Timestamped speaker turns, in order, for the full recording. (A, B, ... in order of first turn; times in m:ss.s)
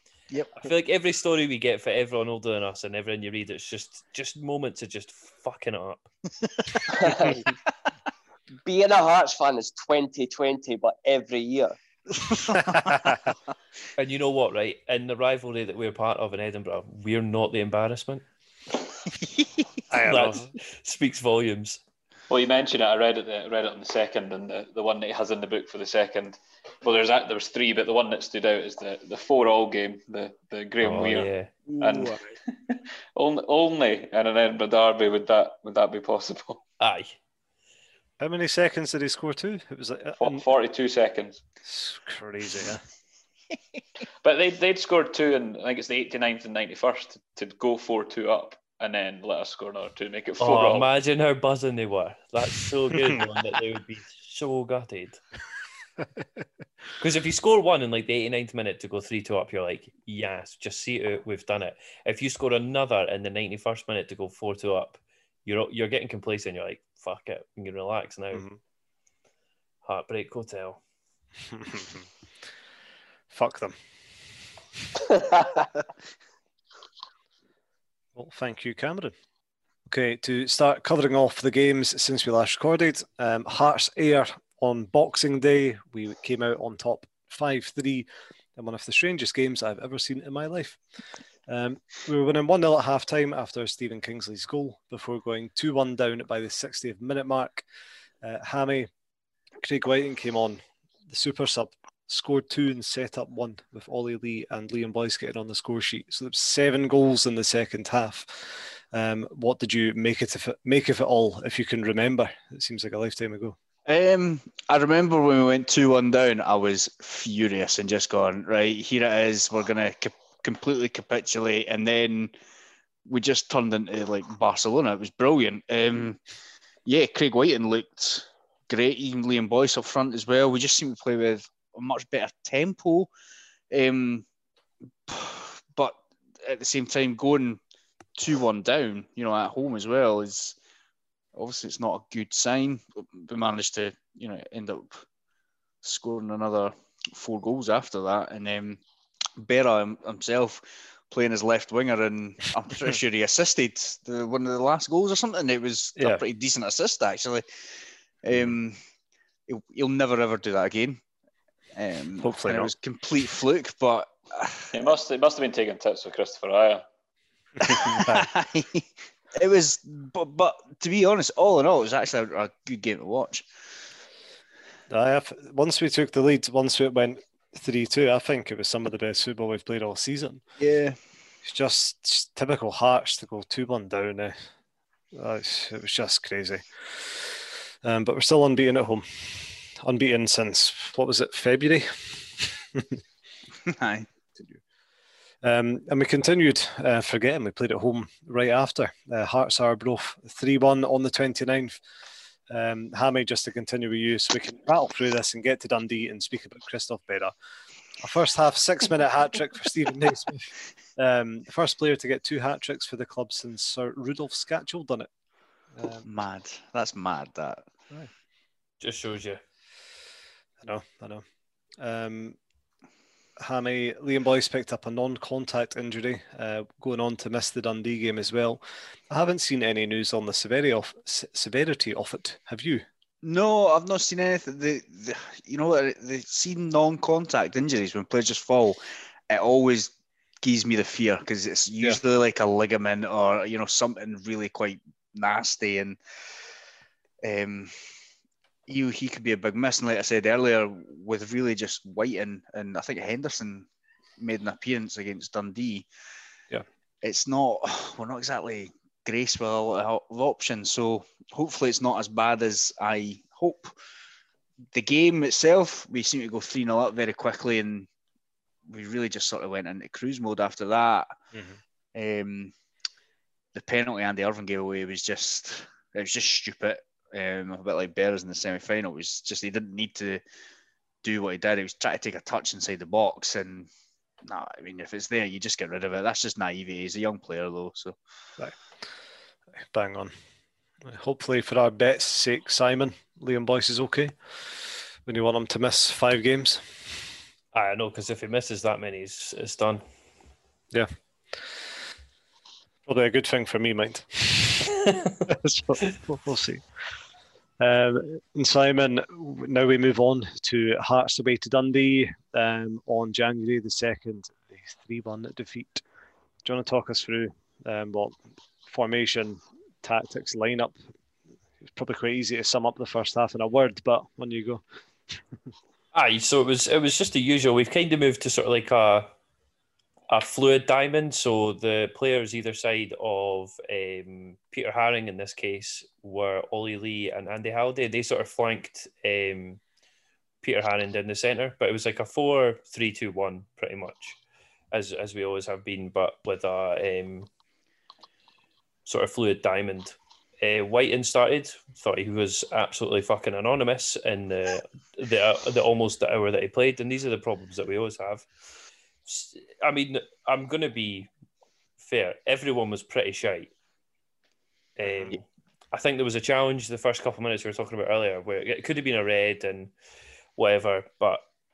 0:00.3-0:00.6 A
0:00.6-0:06.1 B
0:06.9-0:07.4 C
0:08.6-0:11.8 C
0:12.3-0:13.0 A
0:12.6-0:13.2 D
0:14.0-0:18.2 B
0:19.9-0:20.5 D
0:20.0-0:21.8 B
0:22.3-0:31.3 E
0:30.8-0:31.5 B
0:31.7-0:32.2 A
0:31.8-0:36.6 E
0:36.8-0:37.1 B
0:38.2-0:40.4 D
0:40.2-0:41.4 E
0:41.6-0:42.8 D
0:44.2-0:50.9 E
0:50.4-0:55.2 B
0:57.0-1:08.4 B
1:08.3-1:08.6 D
1:09.8-1:10.8 B
1:11.5-1:12.1 D
1:13.3-1:13.8 D
1:18.1-1:19.1 D
1:19.9-1:30.8 D
1:31.5-1:37.6 D
1:38.2-1:38.9 D
1:39.6-1:53.6 D
1:53.9-2:02.3 A
2:03.1-2:06.2 A
2:06.9-2:13.1 A
2:13.7-2:14.2 A
2:15.1-2:17.6 A
2:18.2-2:20.6 A
2:21.4-2:25.0 A
2:25.8-2:28.8 A
2:29.4-2:37.4 A
2:36.0-2:36.2 D
2:38.2-2:38.8 A
2:39.5-2:41.0 A
2:41.8-2:44.7 A
2:42.2-2:42.7 D
2:44.7-2:46.8 E
2:47.6-2:53.5 A
2:47.6-2:48.3 D
2:54.9-3:00.4 D
3:00.6-3:01.0 A
3:01.4-3:04.4 D
3:05.1-3:13.0 D
3:13.6-3:14.1 A
3:15.4-3:21.8 D
3:22.5-3:27.3 D
3:28.0-3:35.1 D
3:35.8-3:36.0 D
3:36.0-3:37.6 A
3:38.8-3:39.4 B
3:40.6-3:41.2 D
3:41.8-3:42.4 D
3:43.4-3:52.8 D
3:53.2-4:06.0 A
4:07.2-4:07.7 A
4:08.7-4:13.7 A
4:14.2-4:15.9 A
4:17.0-4:23.7 A
4:24.7-4:27.9 A
4:28.7-4:31.1 A
4:31.3-4:31.6 D
4:32.0-4:32.5 A
4:33.5-4:40.2 A
4:41.0-4:43.7 A
4:44.2-4:48.0 A
4:49.6-4:50.1 D
4:50.8-4:54.2 D
4:55.1-4:56.7 D
4:57.5-4:59.8 B
5:02.9-5:06.6 D
5:07.6-5:15.8 D
5:16.4-5:20.8 D
5:21.6-5:24.6 D
5:25.9-5:29.1 B
5:30.1-5:39.6 B
5:40.4-5:44.2 B
5:44.7-5:47.3 B
5:48.9-5:58.3 B
5:59.1-6:01.1 B
6:01.8-6:03.5 B
6:04.8-6:09.7 B
6:04.9-6:05.1 D
6:10.4-6:11.2 B